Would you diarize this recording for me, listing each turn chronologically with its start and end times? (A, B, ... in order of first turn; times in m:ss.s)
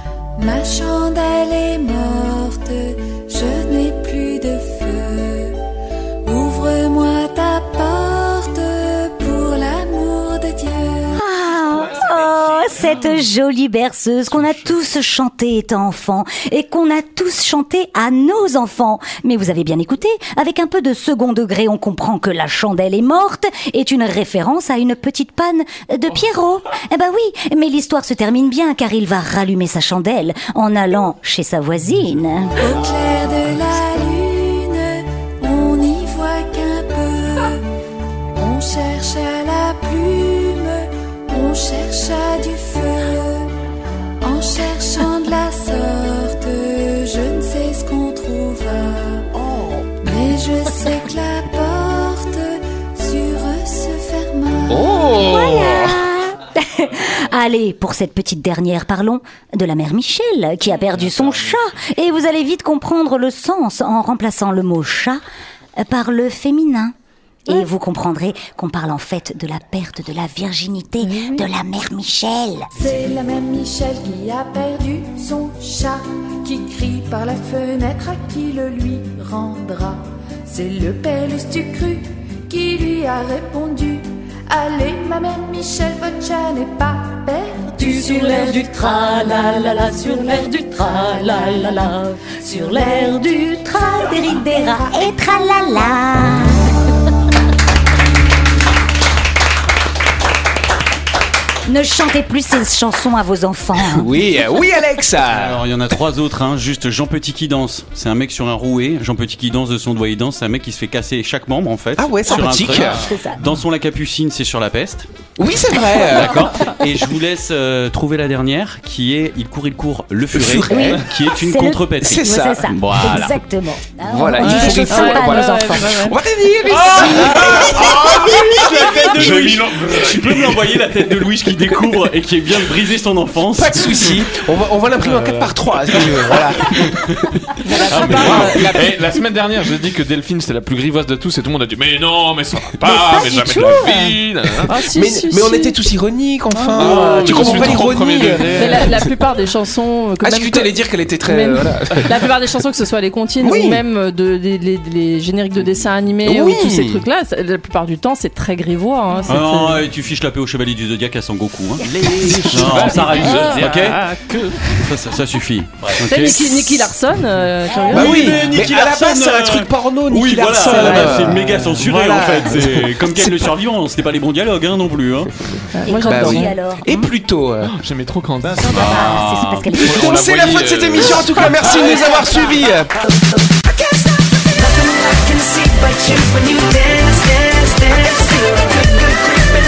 0:00.4-0:05.6 A
0:06.2-0:11.2 A
0:11.2-0:32.5 B
0:32.6-0:37.6 A
0:38.3-0:43.5 A
0:44.2-0:49.3 A
0:50.0-0:54.7 A
0:54.7-0:56.0 C
0:55.1-1:05.2 B
1:05.8-1:06.9 B
1:07.4-1:12.7 B
1:11.0-1:11.4 D
1:12.8-1:28.9 A
1:27.8-1:28.6 B
1:28.5-1:30.3 E
1:29.4-1:30.6 B
1:30.8-1:31.4 E
1:31.4-1:36.6 B
1:41.6-1:44.0 B
1:43.8-1:45.6 C
1:45.2-1:55.1 F
1:52.0-1:53.0 C
1:52.3-1:53.4 B
1:55.4-1:56.4 C
1:56.0-2:03.3 F
2:00.3-2:01.0 C
2:00.7-2:05.7 B
2:02.0-2:02.6 C
2:04.0-2:08.3 C
2:04.4-2:06.2 D
2:06.9-2:13.9 F
2:07.4-2:07.7 G
2:09.1-2:10.7 G
2:13.5-2:16.9 C
2:15.0-2:16.8 G
2:17.6-2:19.2 D
2:17.9-2:24.7 G
2:18.0-2:18.5 C
2:22.8-2:25.8 D
2:24.9-2:28.4 C
2:26.5-2:27.7 D
2:26.8-2:29.1 G
2:28.4-2:39.9 D
2:30.2-2:32.1 C
2:33.4-2:33.8 C
2:36.2-2:37.0 C
2:39.3-2:44.1 F
2:42.0-2:44.6 G
2:43.2-2:43.7 D
2:44.8-2:46.5 F
2:46.1-2:48.5 D
2:47.9-2:55.3 F
2:48.0-2:53.5 C
2:50.6-2:51.5 D
2:52.3-2:52.6 G
2:55.8-2:56.5 D
2:55.8-2:56.9 B
2:56.0-2:57.8 C
2:57.6-2:58.9 G
2:58.4-3:00.1 B
2:58.6-2:59.5 F
2:59.5-3:02.1 G
2:59.7-3:02.9 C